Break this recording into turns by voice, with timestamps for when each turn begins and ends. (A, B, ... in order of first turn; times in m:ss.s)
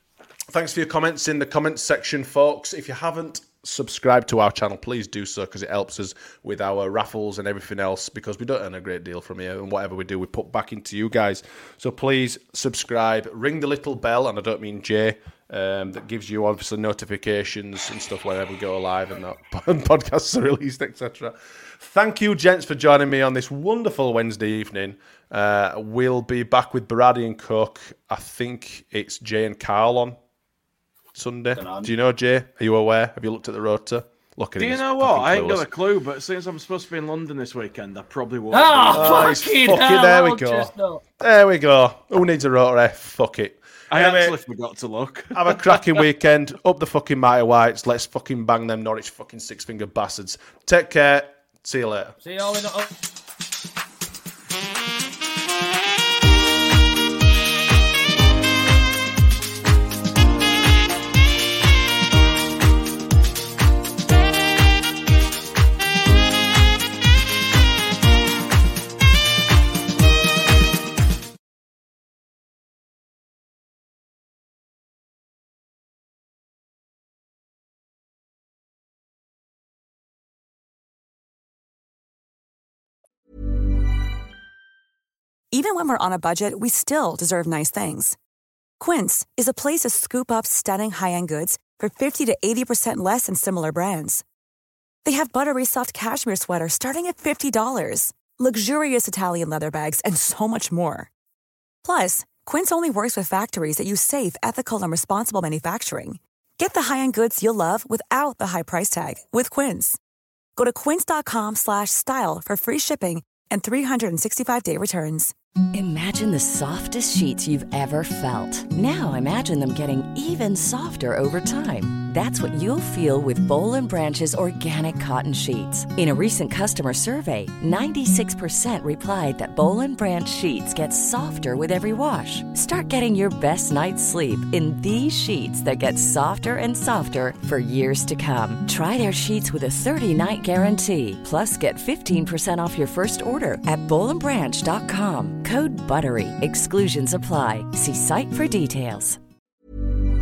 0:00.5-0:30.2 A
0:31.2-0:35.7 A
0:31.6-0:31.9 B
0:34.6-0:39.4 C
0:38.5-0:41.0 B
0:38.9-0:44.4 A
0:43.9-0:45.9 C
0:45.3-0:52.2 A
0:52.2-0:52.9 B
1:25.5-1:28.2 D
1:28.8-1:34.2 D
1:35.0-1:41.1 D
1:41.8-1:50.0 D
1:50.6-1:55.3 D
1:55.7-2:29.2 E